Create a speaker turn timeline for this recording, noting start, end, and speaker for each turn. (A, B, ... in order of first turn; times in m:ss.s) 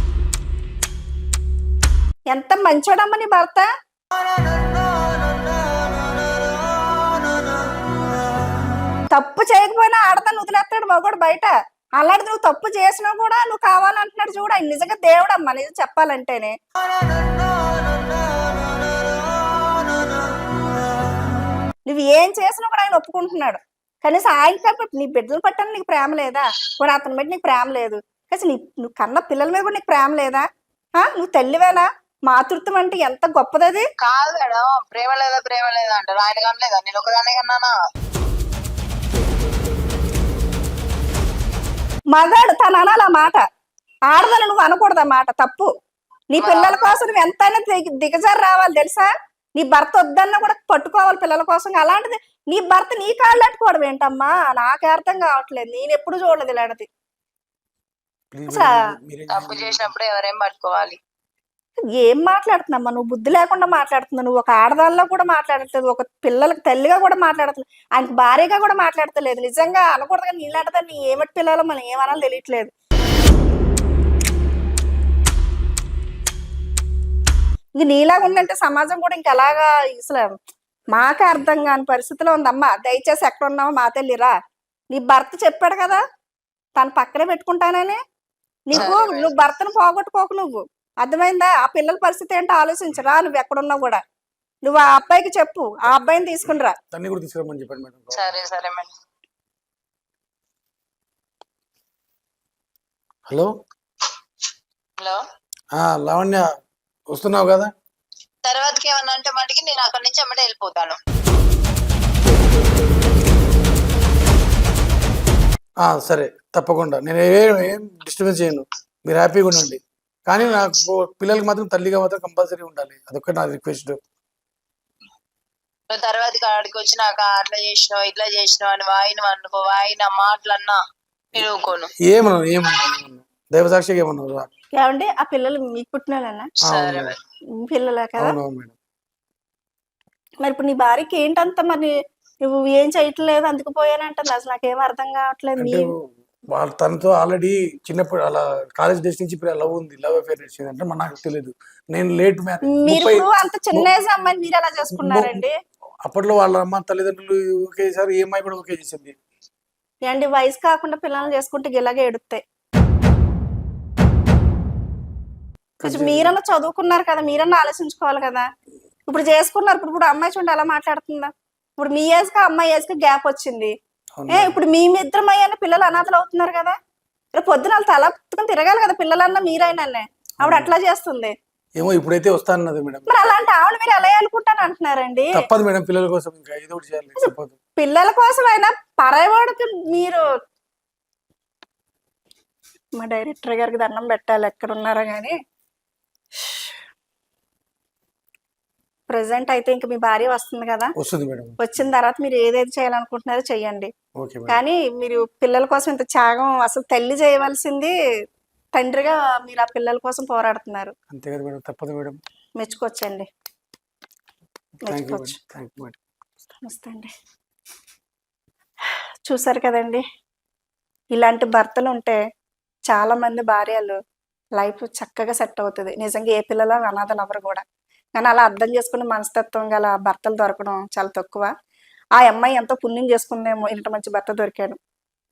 0:02.3-0:03.7 A
0:09.1-0:16.5 A
0:21.9-0:30.5 A
0:31.0-0:33.9 A
0:34.0-0:37.7 B
0:42.1-0:43.4 A
0:44.1-0:45.7 A
0:46.3-0:56.9 A
0:46.4-0:47.0 B
0:58.3-0:59.9 C
0:59.3-1:01.0 B
1:01.9-1:12.7 A
1:17.8-1:20.3 A
1:20.9-1:24.3 A
1:24.9-1:26.0 A
1:26.8-1:28.0 A
1:28.7-1:34.0 A
1:28.7-1:29.4 B
1:34.6-1:36.8 A
1:36.9-1:38.4 C
1:38.1-1:38.9 B
1:45.8-1:46.4 C
1:47.1-1:47.7 C
1:48.4-1:51.0 B
1:55.8-2:04.0 C
2:05.9-2:10.8 B
2:11.4-2:11.9 B
2:12.1-2:14.5 C
2:14.8-2:16.5 A
2:16.6-2:17.2 B
2:16.7-2:17.2 C
2:17.6-2:18.4 A
2:18.2-2:18.8 C
2:20.4-2:21.9 A
2:22.5-2:25.9 A
2:25.6-2:26.0 C
2:26.5-2:33.9 C
2:32.7-2:35.5 A
2:34.9-2:35.4 C
2:36.0-2:39.2 C
2:40.1-2:42.4 A
2:45.8-2:46.4 C
2:45.8-2:48.5 A
2:49.1-2:53.7 A
2:54.2-2:54.6 C
2:54.3-2:56.8 A
2:57.4-3:01.3 A
3:00.4-3:00.8 C
3:01.8-3:03.1 C
3:03.1-3:05.4 A
3:05.3-3:07.6 C
3:07.2-3:10.2 A
3:13.0-3:15.3 A
3:16.4-3:16.8 A
3:19.1-3:20.9 A
3:21.0-3:21.6 C
3:21.6-3:23.9 A
3:24.2-3:24.6 C
3:24.5-3:27.9 A
3:28.8-3:30.9 A
3:31.1-3:32.2 C
3:32.6-3:33.3 A
3:34.8-3:35.4 A
3:34.9-3:36.0 C
3:36.6-3:37.1 A
3:39.3-3:40.0 A
3:41.2-3:42.2 A
3:42.9-3:44.0 A
3:44.6-3:47.6 A
3:48.2-3:51.5 A
3:52.2-3:54.8 A